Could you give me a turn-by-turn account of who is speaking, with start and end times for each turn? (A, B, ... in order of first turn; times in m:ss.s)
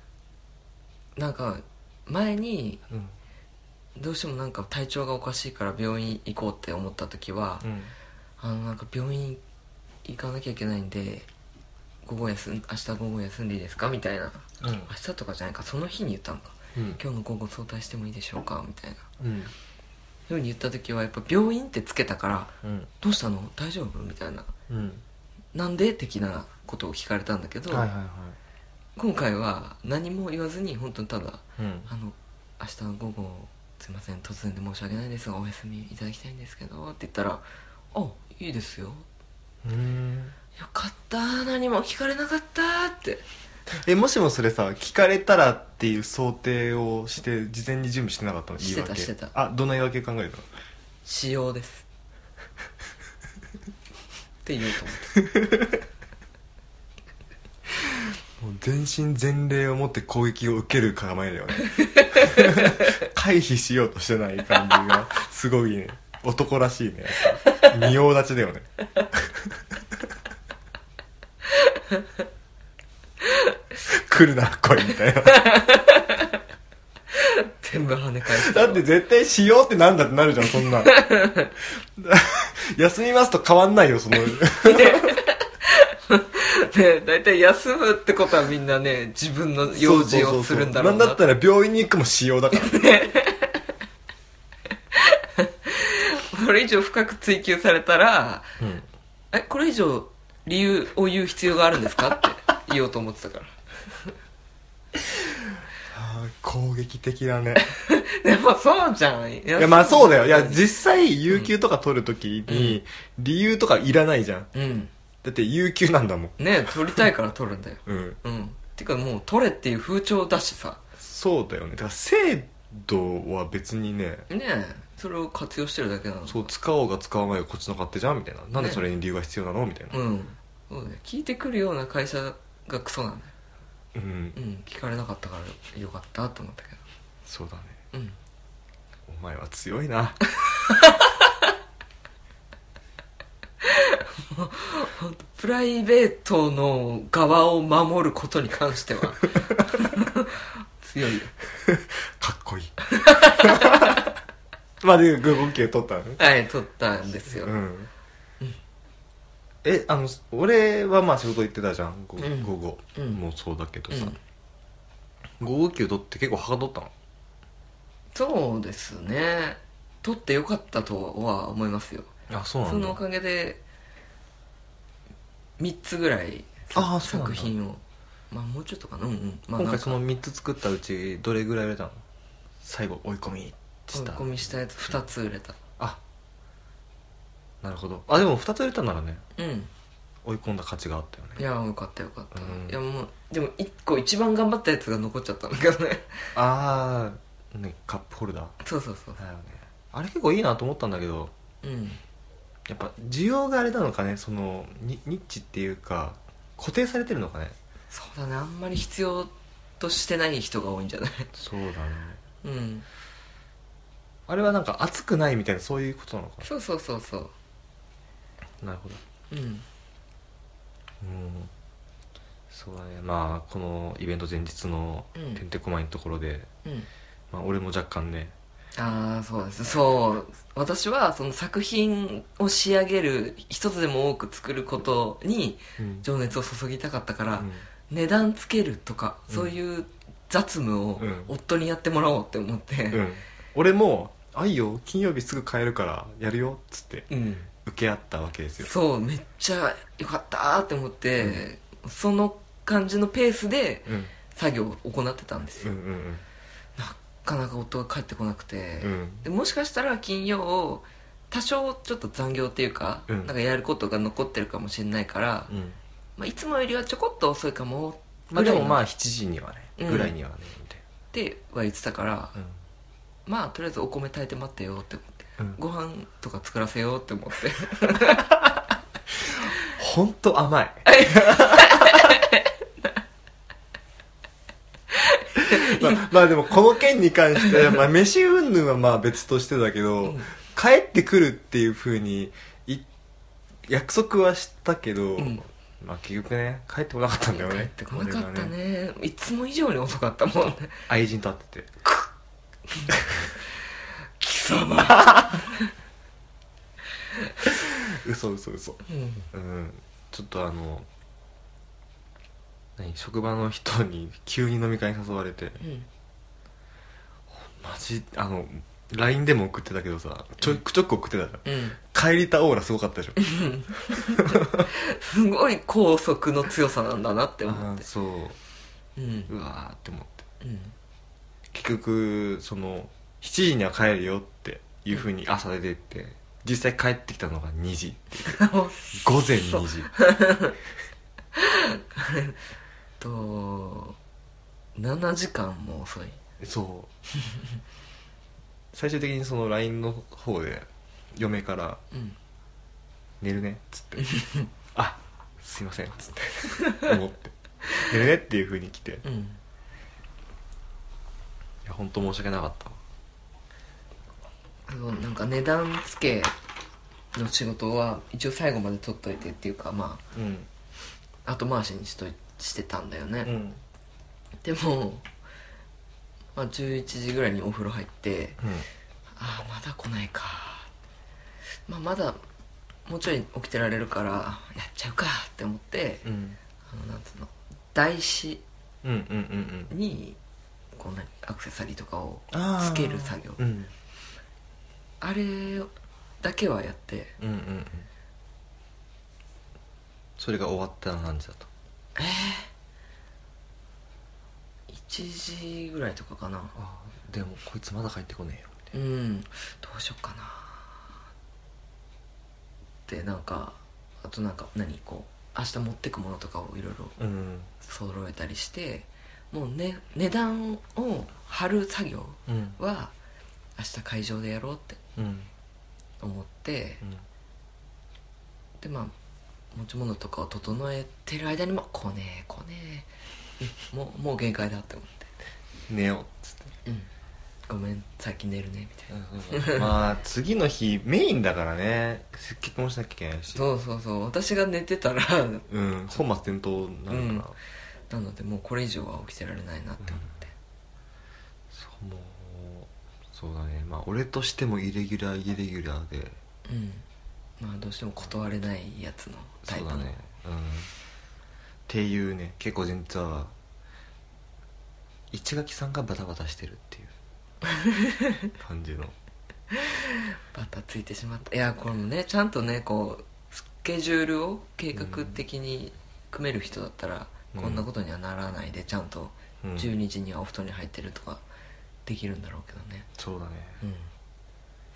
0:01.2-0:02.8 A
0:02.9-0:03.1 B
0:04.0-0:07.7 A
0:07.6-0:07.9 B
0:08.4-0:09.4 A
0:10.0-0:11.3 A
0:12.0-0:19.0 A
0:14.6-0:14.9 B
0:16.8-0:17.0 B
0:19.2-0:19.5 B
0:20.3-0:24.5 A
0:22.6-0:22.9 B
0:24.7-0:25.0 B
0:25.5-0:27.9 A
0:27.7-0:28.4 B
0:29.0-0:39.0 A
0:31.6-0:31.9 B
0:39.6-0:40.3 B
0:40.6-0:43.2 A
0:43.8-0:50.4 B
0:48.6-0:49.3 A
0:51.0-0:51.8 A
0:54.4-0:55.1 A
0:55.2-0:55.8 B
0:57.8-1:09.6 B
1:01.8-1:02.9 A
1:07.4-1:07.7 A
1:11.6-1:12.0 A
1:13.3-1:13.5 A
1:13.8-1:15.6 B
1:15.2-1:16.4 A
1:17.1-1:18.8 A
1:18.3-1:20.9 B
1:20.8-1:21.5 A
1:21.7-1:25.2 B
1:24.6-1:31.2 A
1:29.7-1:32.8 B
1:32.5-1:33.6 A
1:34.9-1:38.5 A
1:38.6-1:38.9 B
1:39.3-1:44.1 A
1:45.9-1:47.6 B
1:47.6-1:50.6 A
1:49.6-1:54.5 B
1:52.5-1:52.8 A
1:54.5-1:54.9 A
1:55.2-1:57.0 B
1:56.4-2:00.8 A
1:57.8-1:58.2 B
2:01.0-2:04.3 B
2:04.3-2:06.5 A
2:06.3-2:10.0 B
2:08.5-2:08.8 A
2:09.9-2:13.3 A
2:13.9-2:14.4 B
2:14.3-2:16.8 A
2:17.2-2:17.8 B
2:17.9-2:18.2 A
2:19.1-2:20.2 B
2:20.6-2:21.3 A
2:23.6-2:31.3 A
2:31.6-2:34.1 B
2:32.9-2:34.0 A
2:34.8-2:36.2 B
2:36.2-2:37.5 A
2:37.3-2:37.9 B
2:39.6-2:44.2 B
2:42.2-2:43.2 A
2:43.9-2:44.2 A
2:45.4-2:46.9 B
2:48.1-2:52.1 A
2:52.3-2:53.0 B
2:52.6-2:53.6 A
2:55.6-3:00.0 A
2:56.7-2:57.5 B
2:59.6-3:02.0 B
3:02.6-3:04.3 B
3:03.9-3:05.6 A
3:07.6-3:09.2 B
3:09.4-3:09.7 A
3:10.2-3:11.4 B
3:11.4-3:16.3 A
3:12.3-3:12.8 B
3:16.3-3:18.5 B
3:18.6-3:19.2 A
3:19.2-3:21.3 B
3:21.6-3:22.0 A
3:22.7-3:27.6 B
3:27.9-3:31.3 A
3:31.3-3:32.2 B
3:32.4-3:32.8 A
3:34.3-3:36.5 B
3:36.4-3:37.3 A
3:38.6-3:39.0 B
3:39.3-3:39.6 A
3:41.0-3:41.5 B
3:42.5-3:46.5 B
3:45.1-3:45.4 A
3:47.3-3:48.3 B
3:48.8-4:03.0 A
3:55.8-3:56.0 B
3:57.4-3:57.6 B
3:59.3-3:59.5 B
4:01.0-4:01.3 B
4:02.9-4:08.7 B
4:07.1-4:07.5 A
4:08.6-4:15.7 A
4:13.8-4:14.1 B
4:15.6-4:16.2 B
4:16.8-4:25.5 A
4:18.8-4:19.2 B
4:23.1-4:23.3 B
4:25.5-4:25.8 B
4:26.2-4:28.8 A
4:28.3-4:30.8 B
4:29.8-4:30.1 A
4:31.1-4:32.4 A
4:33.2-4:38.3 A
4:39.2-4:42.2 B
4:40.8-4:42.6 A
4:44.9-4:46.1 A
4:45.4-4:52.8 B
4:50.0-4:50.3 A
4:53.6-4:58.5 B
4:57.3-5:00.9 A
5:00.9-5:01.7 B
5:02.7-5:03.0 A
5:04.2-5:05.7 A
5:07.4-5:08.8 B
5:08.8-5:09.3 A
5:09.3-5:10.9 B
5:12.8-5:15.6 B
5:15.6-5:15.9 A
5:17.3-5:23.3 B
5:21.4-5:21.8 A
5:23.2-5:27.8 A
5:23.9-5:24.7 B
5:27.4-5:28.4 B
5:29.0-5:29.3 A
5:29.3-5:30.2 B
5:30.4-5:30.7 A
5:31.5-5:39.9 B
5:38.2-5:40.5 A
5:41.3-5:42.4 A
5:43.0-5:44.0 A
5:44.7-5:46.2 A
5:46.4-5:46.9 B
5:48.7-5:51.8 B
5:53.2-5:54.2 B
5:54.0-5:54.5 A
5:54.7-5:59.0 B
5:56.6-5:56.9 A
5:59.0-5:59.4 A
6:01.6-6:02.8 B
6:04.7-6:06.3 A
6:07.1-6:10.0 A
6:10.1-6:10.5 B
6:11.2-6:13.3 A
6:13.2-6:13.6 B
6:14.4-6:15.0 A
6:16.4-6:18.4 A
6:18.4-6:18.7 B
6:19.2-6:20.7 A
6:21.7-6:22.2 A
6:22.8-6:26.0 A
6:26.0-6:26.4 B
6:26.7-6:28.4 A
6:28.8-6:29.7 B
6:29.7-6:30.2 A
6:30.8-6:33.4 A
6:32.3-6:33.7 B
6:35.0-6:37.1 A
6:37.2-6:37.9 B
6:40.2-6:41.5 B
6:42.0-6:42.5 A
6:44.7-6:46.5 A
6:46.5-6:48.7 B
6:48.7-6:50.8 A
6:52.9-6:56.9 A
6:57.0-6:57.5 B
6:57.6-7:02.9 A
7:02.3-7:02.6 B
7:03.6-7:04.8 A
7:05.0-7:05.3 B
7:06.0-7:06.8 A
7:08.6-7:08.9 A
7:09.5-7:12.9 A
7:13.4-7:15.1 A
7:15.7-7:16.5 B
7:17.5-7:19.7 A
7:18.9-7:23.4 B
7:23.3-7:25.4 A
7:25.5-7:27.3 B
7:26.9-7:27.2 A
7:27.9-7:30.3 A
7:29.8-7:30.1 B
7:31.5-7:36.2 B
7:36.4-7:36.8 A
7:37.4-7:39.9 A
7:39.4-7:40.7 B
7:41.7-7:43.3 B
7:45.1-7:46.9 B
7:47.4-7:48.2 A
7:48.4-7:48.9 B
7:49.5-8:01.2 A
7:54.7-7:55.2 B
7:57.3-7:57.6 B
7:59.4-7:59.7 B
8:01.8-8:02.9 A
8:03.0-8:03.6 B
8:03.6-8:03.9 A